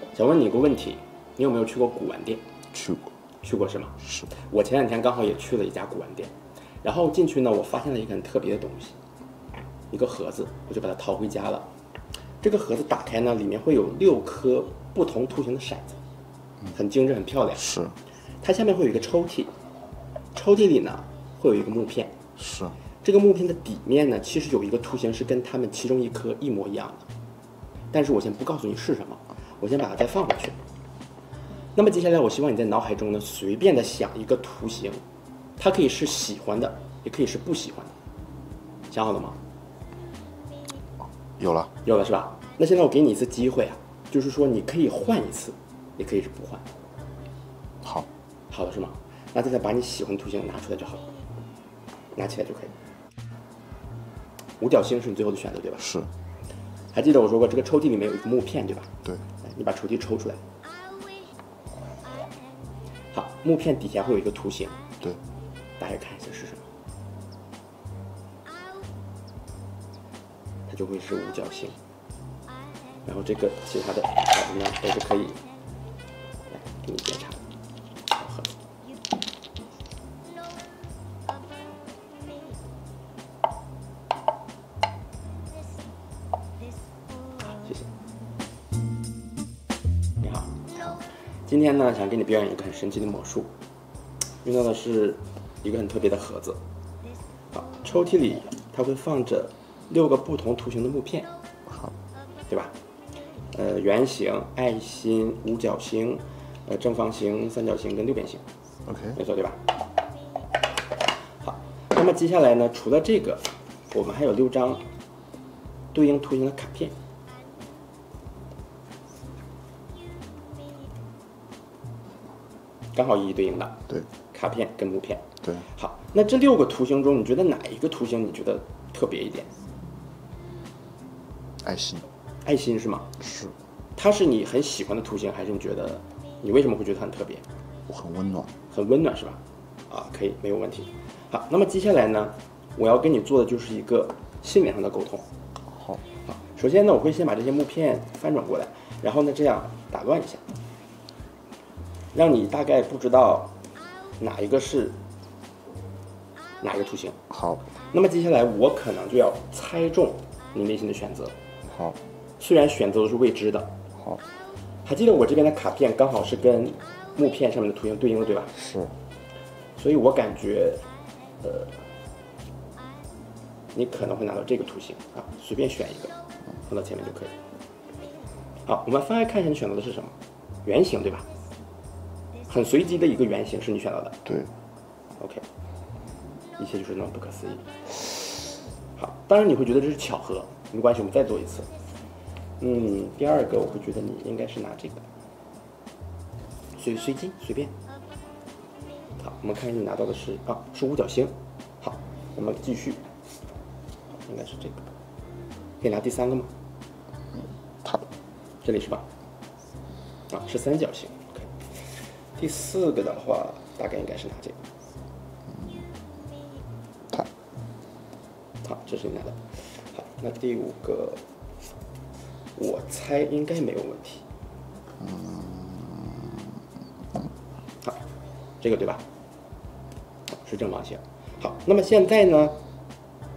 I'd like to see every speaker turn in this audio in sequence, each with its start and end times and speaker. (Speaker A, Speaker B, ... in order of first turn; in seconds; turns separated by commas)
Speaker A: 0.1-2.4, Speaker B: 2.7-3.1, Speaker A: 3.4-9.0, Speaker B: 4.0-4.3, Speaker A: 9.9-11.7, Speaker A: 12.4-16.0, Speaker A: 16.7-17.6, Speaker B: 17.6-18.0, Speaker A: 18.4-19.5, Speaker A: 20.3-22.1, Speaker B: 22.4-22.8, Speaker A: 23.0-27.1, Speaker A: 27.9-30.6, Speaker A: 31.7-35.0, Speaker A: 35.6-37.9, Speaker A: 38.9-39.4, Speaker B: 41.4-41.7, Speaker A: 41.8-46.6, Speaker B: 47.8-48.1, Speaker A: 48.5-51.0, Speaker A: 52.1-52.7, Speaker A: 54.6-55.9, Speaker B: 55.8-56.1, Speaker A: 56.9-58.9, Speaker A: 59.4-60.4, Speaker A: 63.1-64.7, Speaker A: 65.8-66.6, Speaker A: 70.7-71.8, Speaker A: 73.0-75.4, Speaker A: 76.5-77.4, Speaker A: 78.1-78.5, Speaker A: 87.4-87.9, Speaker A: 90.2-90.5, Speaker A: 91.5-93.5, Speaker A: 94.4-96.6, Speaker A: 97.5-101.3, Speaker B: 101.7-101.9, Speaker A: 103.5-108.4, Speaker B: 108.9-109.2, Speaker A: 109.1-109.6, Speaker A: 111.4-114.8, Speaker A: 115.9-116.9, Speaker A: 122.9-129.5, Speaker B: 131.6-132.1, Speaker A: 132.4-133.1, Speaker B: 133.2-133.5, Speaker A: 133.9-137.4, Speaker B: 137.9-138.5, Speaker A: 138.7-145.3, Speaker B: 145.7-146.0, Speaker A: 146.2-150.4, Speaker A: 152.1-153.5, Speaker A: 154.2-155.0, Speaker A: 156.6-157.2, Speaker B: 157.3-157.6, Speaker A: 157.9-161.3, Speaker B: 161.6-162.0, Speaker A: 162.4-163.7, Speaker B: 164.0-164.2, Speaker A: 164.8-168.5, Speaker B: 168.6-168.9, Speaker A: 169.8-170.8, Speaker A: 171.4-171.7, Speaker A: 173.7-176.1, Speaker A: 176.7-177.3, Speaker A: 178.7-181.2, Speaker A: 182.5-184.2, Speaker B: 184.2-184.5, Speaker A: 185.2-185.4, Speaker A: 186.6-188.4, Speaker A: 189.0-191.7, Speaker A: 192.6-195.0, Speaker A: 196.7-197.7, Speaker A: 199.2-203.0, Speaker A: 204.2-204.9, Speaker A: 205.8-206.5, Speaker B: 207.4-208.0, Speaker A: 208.6-209.1, Speaker A: 210.3-211.6, Speaker A: 212.3-214.6, Speaker A: 218.6-221.2, Speaker A: 222.6-224.2, Speaker B: 225.0-226.4, Speaker A: 228.6-229.0, Speaker A: 230.3-232.6